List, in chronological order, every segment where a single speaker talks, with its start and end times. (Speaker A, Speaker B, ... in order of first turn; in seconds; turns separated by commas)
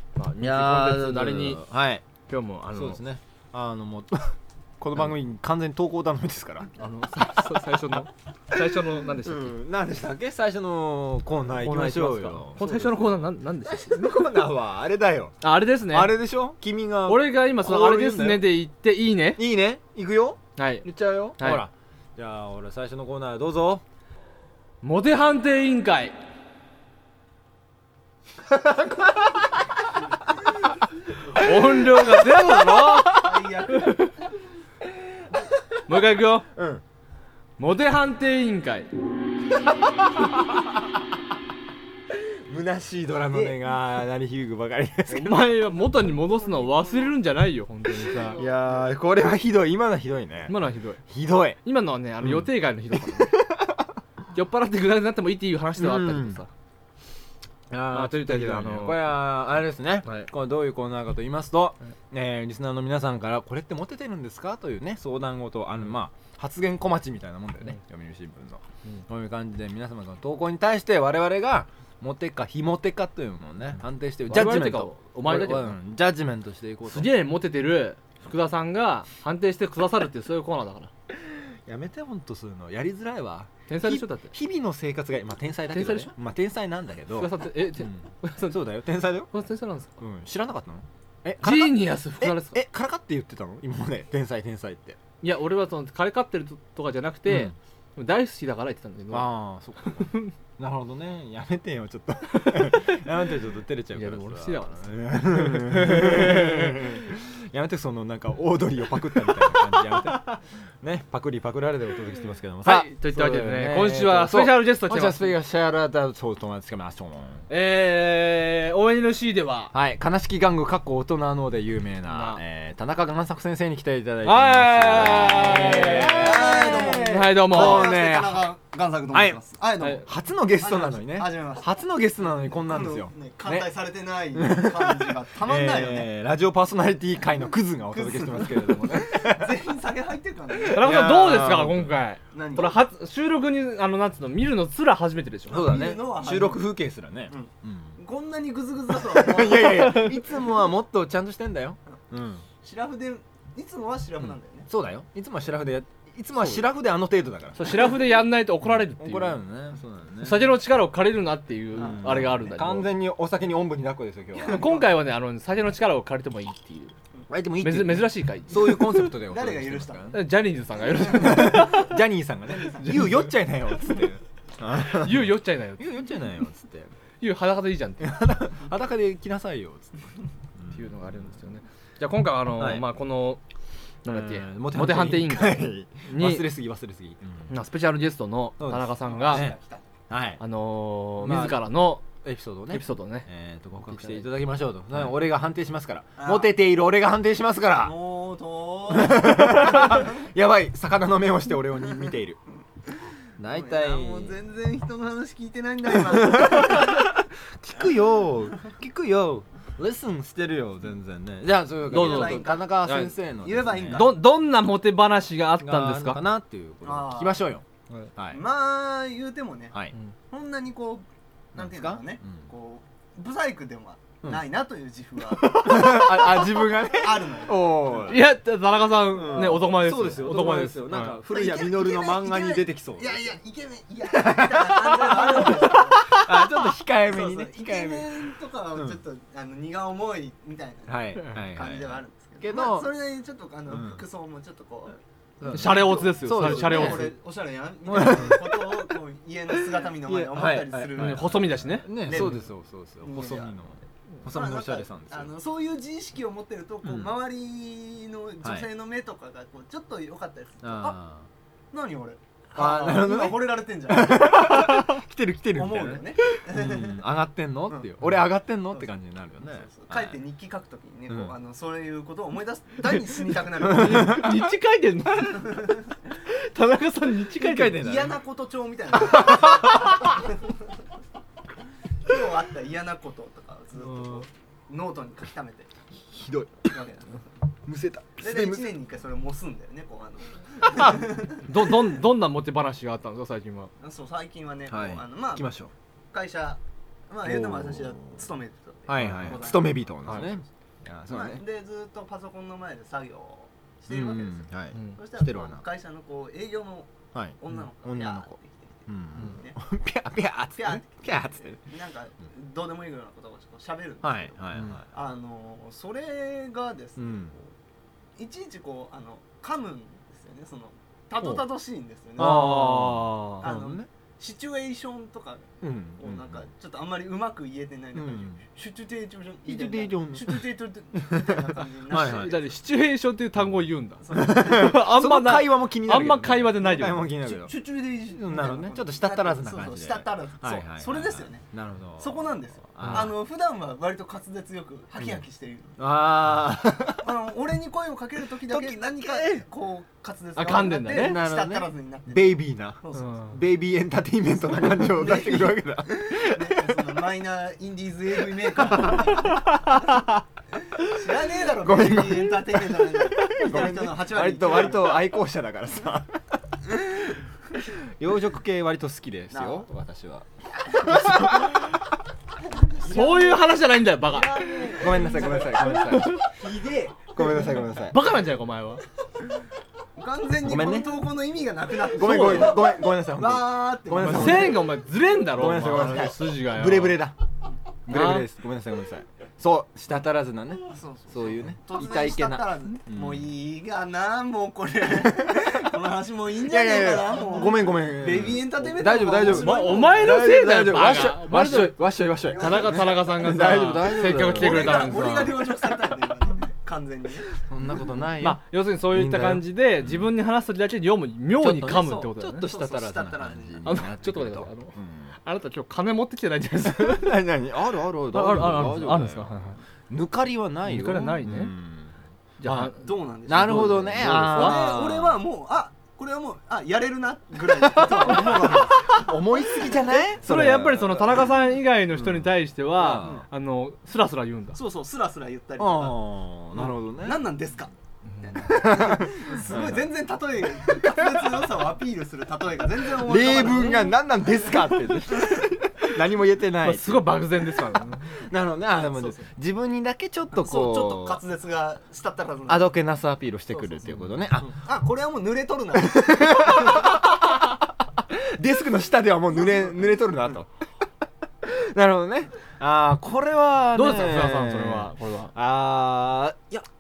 Speaker A: 0.1-1.6, Speaker B: 0.4-2.0, Speaker A: 2.3-3.0, Speaker B: 2.7-6.7, Speaker A: 6.8-9.5, Speaker B: 9.2-13.1, Speaker A: 11.6-14.2, Speaker B: 13.7-18.5, Speaker A: 15.4-16.2, Speaker A: 17.1-19.4, Speaker B: 19.4-23.8, Speaker A: 20.6-21.6, Speaker A: 24.8-26.1, Speaker B: 28.5-29.6, Speaker A: 31.2-34.1, Speaker B: 31.4-33.2, Speaker C: 33.1-34.0, Speaker B: 35.2-35.6, Speaker A: 35.9-36.5, Speaker B: 36.5-36.8, Speaker A: 37.6-38.9, Speaker B: 39.6-40.8, Speaker B: 42.1-45.5, Speaker A: 45.1-48.4, Speaker B: 48.2-51.6, Speaker A: 50.5-51.0, Speaker A: 51.6-53.3, Speaker B: 52.2-53.9, Speaker A: 54.3-56.5, Speaker B: 55.8-56.4, Speaker B: 57.7-77.1, Speaker A: 57.9-59.2, Speaker A: 74.3-75.7, Speaker A: 76.9-80.9, Speaker B: 81.2-89.3, Speaker A: 83.7-84.3, Speaker A: 85.7-86.1, Speaker A: 87.1-88.6, Speaker A: 89.3-90.0, Speaker B: 90.0-95.0, Speaker A: 91.4-92.6, Speaker A: 95.2-99.3, Speaker B: 97.3-97.5, Speaker B: 99.1-117.4, Speaker A: 99.8-100.3, Speaker A: 102.4-102.8, Speaker A: 103.9-106.9, Speaker A: 112.6-115.3, Speaker A: 117.5-119.7, Speaker B: 119.7-128.4, Speaker A: 122.1-122.4, Speaker A: 124.2-127.9, Speaker C: 125.7-131.7, Speaker B: 129.1-129.4, Speaker B: 130.0-133.7, Speaker C: 132.5-136.1, Speaker B: 134.3-139.6, Speaker C: 137.9-140.9, Speaker B: 140.5-141.9, Speaker A: 140.6-145.7, Speaker C: 142.3-142.8, Speaker C: 145.5-146.6, Speaker B: 145.5-147.9, Speaker C: 147.3-150.2, Speaker B: 148.9-152.4, Speaker C: 152.6-154.7, Speaker B: 154.7-157.9, Speaker A: 157.5-159.4, Speaker B: 158.6-160.5, Speaker A: 160.2-162.9, Speaker B: 161.8-164.7, Speaker C: 164.4-164.8, Speaker A: 164.4-166.9, Speaker B: 167.3-170.2, Speaker A: 167.6-169.1, Speaker C: 169.2-170.1, Speaker A: 170.1-172.0, Speaker B: 171.0-176.9, Speaker C: 172.6-172.9, Speaker A: 172.8-173.2, Speaker A: 174.9-175.9, Speaker A: 177.2-178.2, Speaker B: 178.0-181.3, Speaker A: 180.7-183.4, Speaker B: 182.6-182.8, Speaker A: 184.0-186.4, Speaker B: 184.1-187.5, Speaker A: 187.5-189.5, Speaker B: 188.6-189.6, Speaker C: 189.1-189.8, Speaker B: 190.1-190.4, Speaker A: 190.4-192.1, Speaker B: 191.2-197.9, Speaker A: 192.7-193.3, Speaker A: 193.9-194.2, Speaker C: 196.2-196.5, Speaker C: 197.8-200.2, Speaker B: 198.9-202.4, Speaker B: 203.4-204.3, Speaker C: 203.5-207.1, Speaker B: 206.1-214.1, Speaker C: 211.9-212.7, Speaker A: 211.9-213.1, Speaker C: 213.4-214.2, Speaker A: 213.9-216.2, Speaker B: 215.6-217.6, Speaker C: 216.8-217.4, Speaker B: 218.2-218.4, Speaker C: 218.3-219.8, Speaker C: 220.3-228.2, Speaker B: 221.5-222.4, Speaker B: 225.4-228.2, Speaker A: 228.1-231.2, Speaker B: 229.1-233.4, Speaker C: 229.2-229.5, Speaker C: 231.1-252.5, Speaker B: 234.1-239.0, Speaker B: 240.9-242.9, Speaker B: 243.7-244.0, Speaker B: 245.4-247.1, Speaker A: 245.5-247.1, Speaker B: 247.8-248.8, Speaker B: 250.0-255.3, Speaker A: 250.9-252.4, Speaker C: 253.0-253.5, Speaker C: 254.3-261.0, Speaker B: 256.8-257.1, Speaker B: 260.6-261.3, Speaker C: 261.7-264.9, Speaker B: 262.5-270.2, Speaker C: 265.5-267.0, Speaker C: 269.4-274.3, Speaker A: 273.6-275.7, Speaker B: 273.7-274.4, Speaker A: 276.2-277.9, Speaker B: 277.3-278.2, Speaker C: 277.6-280.4, Speaker B: 278.9-280.1, Speaker C: 282.0-285.7, Speaker B: 286.1-286.8, Speaker C: 286.7-287.2, Speaker B: 287.6-288.7, Speaker C: 288.2-291.4, Speaker A: 290.8-293.7, Speaker C: 293.8-295.5, Speaker B: 294.7-295.7, Speaker C: 296.1-300.4, Speaker B: 297.2-298.2, Speaker B: 298.9-301.4, Speaker C: 301.1-309.6, Speaker B: 303.9-305.6, Speaker B: 307.1-308.3, Speaker B: 308.9-311.6, Speaker C: 310.6-317.5, Speaker B: 314.0-314.8, Speaker B: 317.0-317.3, Speaker C: 318.2-322.7, Speaker A: 322.2-323.4, Speaker B: 322.2-323.9, Speaker C: 323.4-332.5, Speaker B: 325.6-326.4, Speaker B: 327.9-328.4, Speaker B: 329.4-330.4, Speaker B: 331.0-332.4, Speaker A: 331.9-337.1, Speaker C: 334.0-334.8, Speaker B: 334.1-337.5, Speaker C: 336.9-345.8, Speaker B: 338.1-343.1, Speaker A: 342.8-343.1, Speaker B: 345.8-347.1, Speaker C: 346.9-353.4, Speaker B: 348.5-349.4, Speaker A: 350.4-351.2, Speaker B: 350.9-356.9, Speaker A: 352.9-353.3, Speaker C: 354.5-359.6, Speaker B: 358.5-360.0, Speaker C: 360.7-365.1, Speaker B: 361.5-366.6, Speaker B: 367.6-371.8, Speaker C: 369.3-369.6, Speaker C: 370.9-371.4, Speaker C: 372.6-377.7, Speaker A: 372.8-374.4, Speaker B: 374.7-376.3, Speaker A: 375.6-376.2, Speaker B: 377.1-378.0, Speaker A: 377.9-378.8, Speaker C: 379.9-384.7, Speaker B: 380.4-381.0, Speaker B: 381.8-387.2, Speaker A: 382.1-382.4, Speaker A: 384.0-387.0, Speaker B: 387.9-393.3, Speaker A: 387.9-388.3, Speaker C: 390.7-400.3, Speaker B: 395.0-395.6, Speaker B: 396.4-405.5, Speaker A: 399.2-401.8, Speaker C: 402.3-407.4, Speaker A: 402.3-405.4, Speaker B: 407.3-410.1, Speaker A: 408.2-412.5, Speaker B: 411.4-415.1, Speaker C: 412.3-413.8, Speaker A: 413.6-417.1, Speaker B: 416.7-419.3, Speaker A: 418.1-419.6, Speaker B: 419.9-422.7, Speaker A: 420.6-421.5, Speaker A: 422.4-422.8, Speaker C: 422.7-430.1, Speaker B: 423.3-425.2, Speaker A: 423.3-424.8, Speaker B: 427.7-431.2, Speaker A: 430.2-434.6, Speaker B: 431.9-433.2, Speaker C: 434.5-437.7, Speaker B: 435.6-437.2, Speaker A: 438.1-438.6, Speaker C: 438.2-445.4, Speaker B: 438.4-439.9, Speaker B: 440.6-441.3, Speaker B: 442.9-447.1, Speaker A: 446.6-448.2, Speaker B: 448.1-451.2, Speaker C: 448.7-449.2, Speaker C: 450.3-452.7, Speaker B: 452.5-454.6, Speaker C: 454.4-457.0, Speaker B: 455.8-460.5, Speaker B: 461.4-466.6, Speaker A: 463.7-465.3